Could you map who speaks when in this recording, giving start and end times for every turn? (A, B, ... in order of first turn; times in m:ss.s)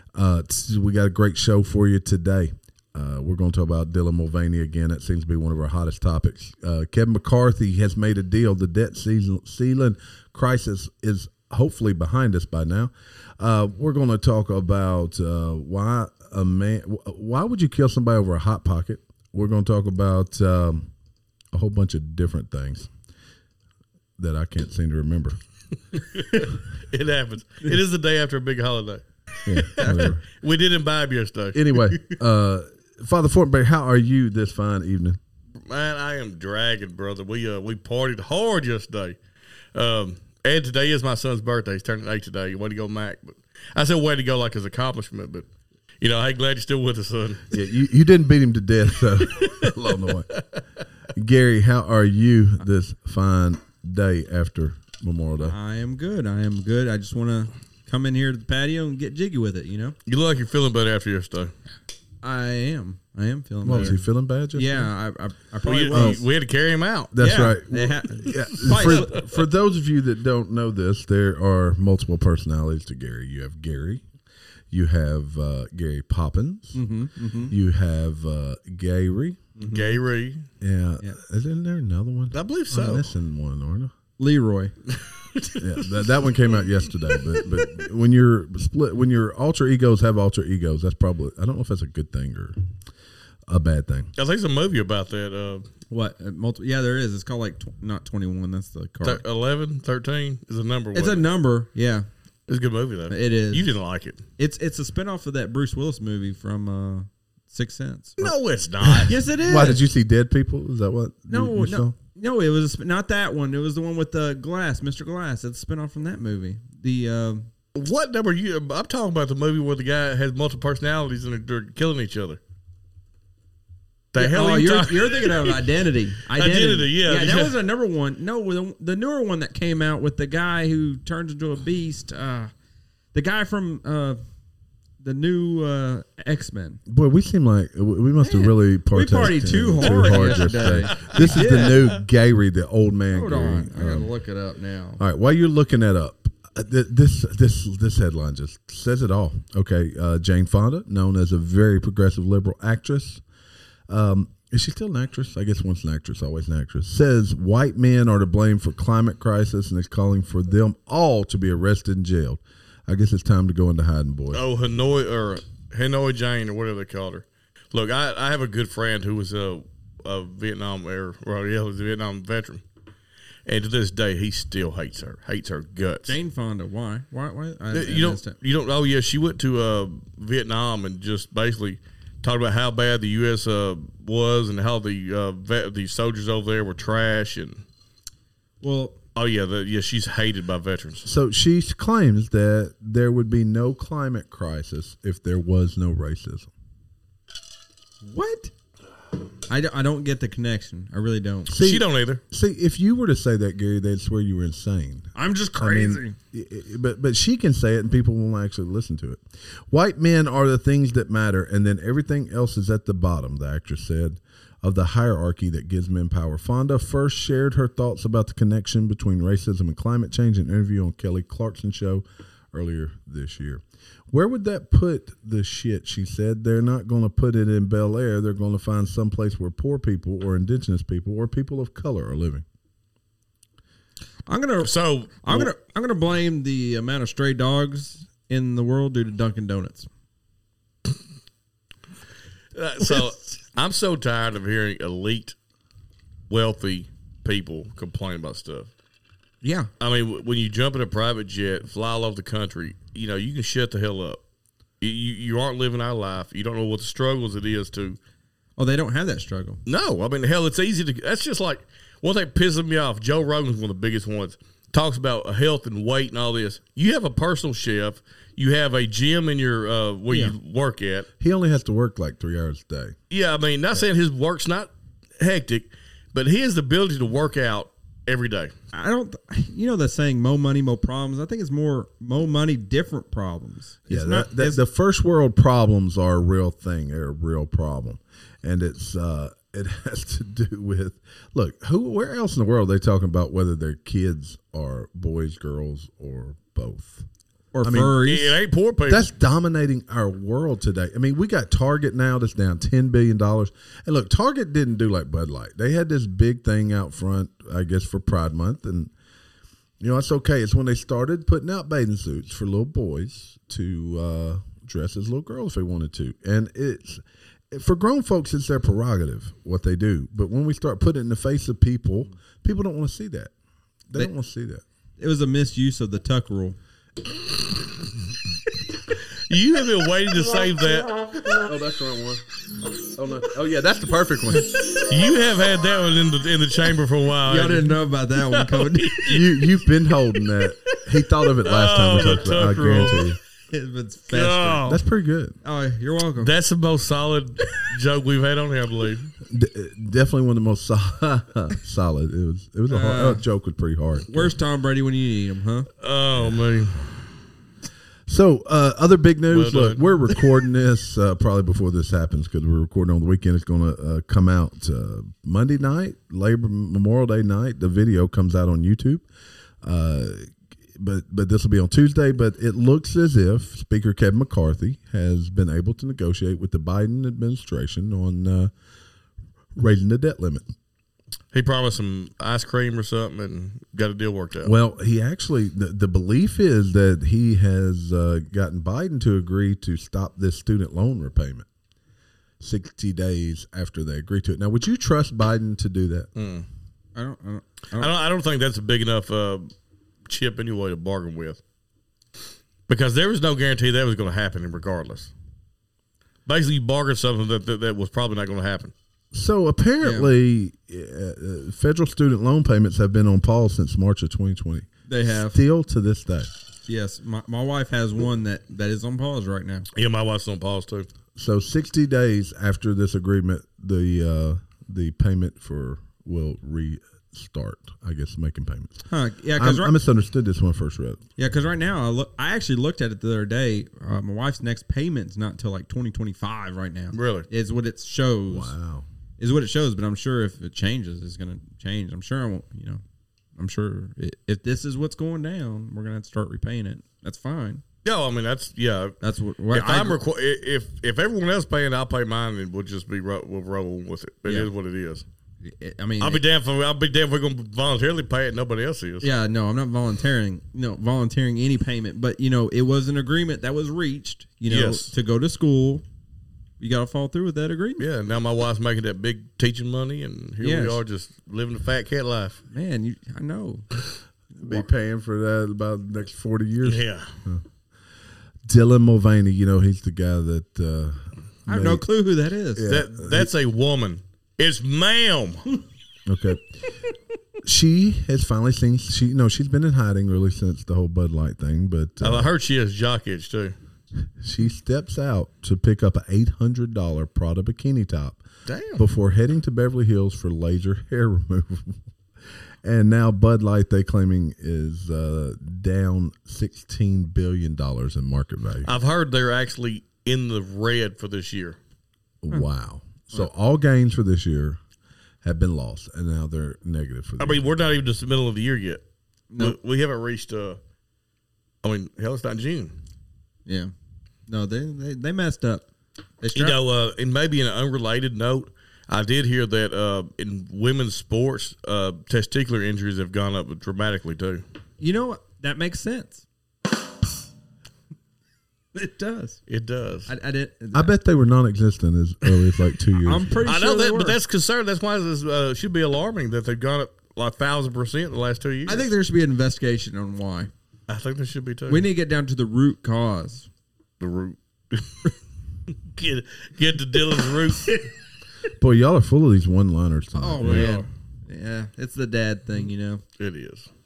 0:00.1-0:20.9 A
0:21.5-0:22.9 A
0:24.2-0:25.4 A
0:25.9-0:31.8 B
0:29.4-0:30.2 A
0:31.5-0:35.2 A
0:35.6-0:39.2 B
0:39.7-0:45.5 B
0:46.0-0:47.5 B
0:47.5-0:50.3 A
0:49.2-0:50.6 B
0:51.2-0:55.6 A
0:55.4-1:00.0 C
1:00.1-1:01.5 B
1:02.2-1:06.2 C
1:03.6-1:04.9 A
1:05.6-1:07.1 B
1:05.9-1:06.2 A
1:07.1-1:14.0 A
1:07.2-1:09.2 C
1:08.4-1:09.2 B
1:14.7-1:16.8 A
1:16.7-1:17.5 C
1:17.5-1:19.4 A
1:19.6-1:20.0 C
1:19.7-1:20.5 B
1:20.6-1:23.9 A
1:22.3-1:23.1 B
1:24.2-1:24.7 C
1:24.9-1:27.9 B
1:25.6-1:32.6 A
1:33.5-1:34.1 A
1:34.2-1:35.7 B
1:35.9-1:39.2 C
1:39.0-1:41.3 B
1:40.9-1:42.1 C
1:42.5-1:44.2 B
1:43.1-1:43.7 C
1:44.4-1:48.3 C
1:48.2-1:49.2 B
1:48.8-1:52.0 A
1:49.1-1:49.8 C
1:51.3-1:57.5 C
1:57.8-2:02.4 B
2:04.1-2:05.6 B
2:04.2-2:12.5 C
2:06.3-2:07.6 B
2:13.1-2:14.2 C
2:15.0-2:16.8 C
2:16.9-2:24.1 A
2:18.2-2:21.9 C
2:19.8-2:21.8 B
2:23.1-2:25.0 C
2:25.0-2:33.2 A
2:33.9-2:44.4 A
2:44.3-2:52.6 B
2:53.5-2:56.2 B
2:56.1-2:58.4 C
2:57.7-3:07.6 B
3:08.6-3:09.0 C
3:09.2-3:11.1 B
3:11.0-3:16.5 A
3:18.0-3:18.5 C
3:19.5-3:21.5 C
3:21.5-3:52.4 A
3:21.6-3:22.2 B
3:25.2-3:26.2 C
3:54.3-3:59.9 C
3:54.6-3:55.5 B
4:02.5-4:05.4 B
4:06.3-4:08.7 B
4:09.4-4:09.7 C
4:09.8-4:14.2 B
4:14.8-4:18.0 B
4:18.6-4:19.6 C
4:19.7-4:31.1 B
4:30.1-4:30.4 C
4:31.2-4:33.0 A
4:33.1-4:38.5 B
4:38.7-4:44.6 C
4:43.9-4:57.0 A
4:57.5-4:58.4 C
4:57.6-4:58.0 A
4:58.0-4:59.1 B
4:58.9-5:08.9 A
5:09.8-5:23.3 A
5:23.9-5:24.6 A
5:25.0-5:26.6 C
5:29.3-5:31.1 B
5:31.4-5:32.2 A
5:32.8-5:34.6 A
5:34.8-5:39.3 B
5:37.2-5:39.2 C
5:39.1-5:43.2 A
5:41.4-5:43.1 B
5:43.5-5:44.7 C
5:44.1-5:44.8 B
5:44.7-5:45.4 A
5:45.4-5:46.3 C
5:46.2-5:49.1 B
5:49.3-5:54.3 A
5:52.7-5:53.2 C
5:54.1-5:55.7 C
5:55.8-5:56.9 B
5:58.1-6:09.0 A
5:59.3-5:59.8 B
6:09.6-6:18.5 A
6:19.6-6:20.5 A
6:21.3-6:24.5 B
6:24.4-6:31.5 A
6:32.4-6:36.1 A
6:36.2-6:36.5 B
6:37.0-6:37.9 C
6:37.8-6:39.5 B
6:40.1-6:41.4 B
6:42.7-6:45.1 B
6:46.3-6:48.7 B
6:49.1-6:56.3 A
6:49.8-6:50.1 C
6:54.9-6:55.4 C
6:56.7-6:59.7 C
6:59.7-7:00.9 B
7:01.2-7:08.8 A
7:08.9-7:09.7 C
7:09.4-7:11.0 A
7:11.2-7:18.5 C
7:16.9-7:17.3 B
7:18.3-7:18.9 A
7:19.2-7:22.8 C
7:23.4-7:27.6 C
7:27.8-7:29.0 B
7:29.0-7:30.0 C
7:29.5-7:35.0 B
7:34.3-7:34.5 C
7:35.4-7:36.2 C
7:36.0-7:39.1 B
7:39.0-7:45.8 C
7:44.5-7:44.9 B
7:46.6-7:47.8 C
7:47.8-7:52.4 B
7:50.4-7:50.8 C
7:52.5-7:53.7 C
7:54.4-7:54.6 C
7:54.4-7:57.4 A
7:56.6-7:57.1 B
7:58.5-8:01.8 A
8:01.5-8:02.7 C
8:02.6-8:03.3 A
8:02.7-8:05.4 B
8:06.1-8:06.5 A
8:07.4-8:12.3 A
8:12.0-8:13.6 B
8:14.2-8:18.2 A
8:18.5-8:18.8 B
8:18.8-8:21.8 A
8:22.6-8:28.7 A
8:28.6-8:31.6 B
8:32.2-8:34.6 A
8:35.2-8:37.5 A
8:37.2-8:38.8 B
8:39.3-8:39.6 C
8:39.4-8:40.6 B
8:41.6-8:42.8 B
8:43.5-8:43.7 C
8:44.3-8:45.7 C
8:46.2-8:46.6 C
8:46.3-8:54.4 B
8:54.8-8:56.2 C
8:58.7-8:59.4 C
8:59.5-9:00.1 B
9:00.1-9:00.9 C
9:00.7-9:03.5 A
9:03.0-9:04.2 C
9:03.4-9:08.9 B
9:08.7-9:10.5 C
9:10.9-9:11.9 B
9:11.7-9:13.5 C
9:14.0-9:15.1 B
9:15.7-9:17.9 B
9:18.6-9:20.7 A
9:20.2-9:23.0 C
9:20.4-9:20.9 B
9:23.2-9:23.7 B